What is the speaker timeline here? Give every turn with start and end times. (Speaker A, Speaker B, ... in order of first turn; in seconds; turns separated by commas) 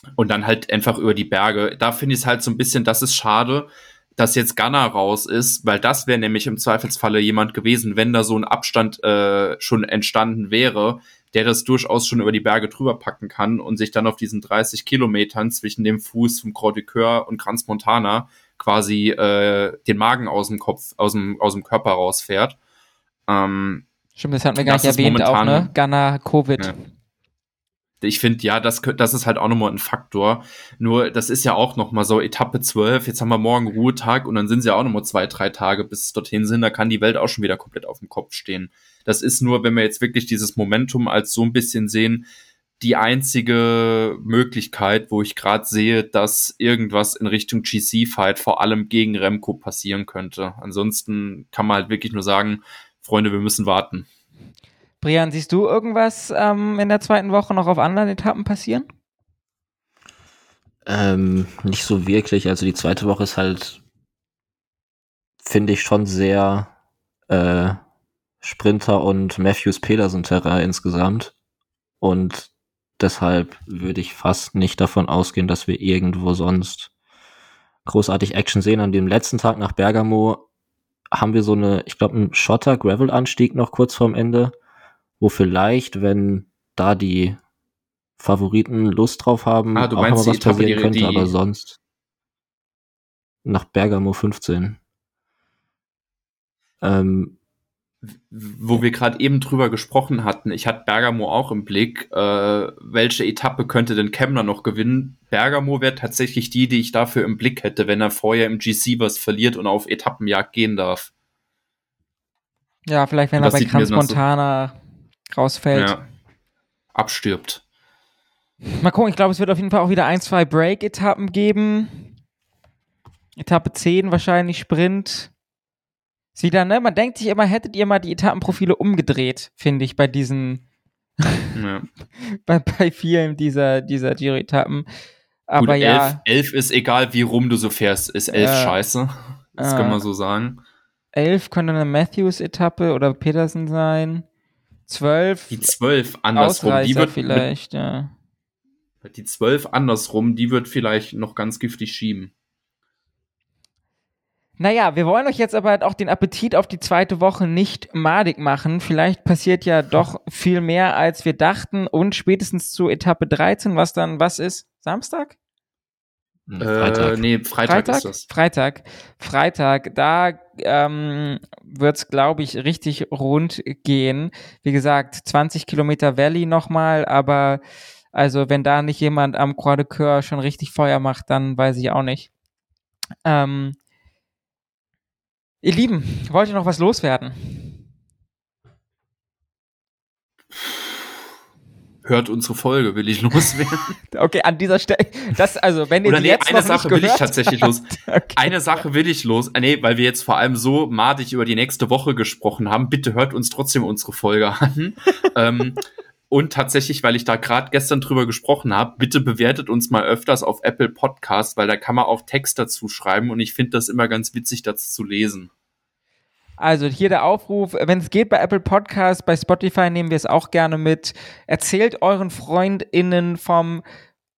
Speaker A: 0.2-22.6, Speaker A: 23.3-23.9, Speaker B: 24.2-26.7, Speaker A: 24.6-25.7, Speaker A: 28.0-42.3, Speaker A: 42.8-54.1, Speaker B: 55.0-58.9, Speaker C: 60.9-63.8, Speaker C: 65.4-66.7, Speaker C: 67.3-67.8, Speaker C: 68.4-71.3, Speaker C: 72.0-76.9, Speaker C: 77.9-80.5, Speaker C: 81.1-84.5, Speaker C: 85.2-87.4, Speaker C: 88.2-91.8, Speaker A: 89.8-91.3, Speaker C: 93.5-94.8, Speaker C: 96.8-97.4, Speaker A: 98.0-111.1, Speaker B: 112.9-114.8, Speaker A: 113.4-114.2, Speaker B: 115.3-115.9, Speaker A: 115.7-116.0, Speaker A: 116.9-117.6, Speaker B: 118.8-122.1, Speaker B: 123.4-125.3, Speaker B: 126.4-130.6, Speaker A: 131.6-131.9, Speaker B: 132.2-134.9, Speaker B: 135.5-136.2, Speaker A: 135.6-140.6, Speaker B: 138.3-138.8, Speaker B: 139.6-140.0, Speaker B: 141.1-144.2, Speaker B: 144.9-145.7, Speaker A: 145.5-147.5, Speaker B: 146.3-148.1, Speaker A: 149.0-152.3, Speaker B: 154.6-165.3, Speaker C: 166.5-167.2, Speaker A: 166.6-168.3, Speaker B: 167.7-177.6, Speaker B: 178.1-182.3, Speaker B: 183.2-183.8, Speaker B: 185.6-187.8, Speaker A: 192.0-193.9, Speaker B: 194.1-198.5, Speaker A: 196.0-215.5, Speaker B: 216.6-223.8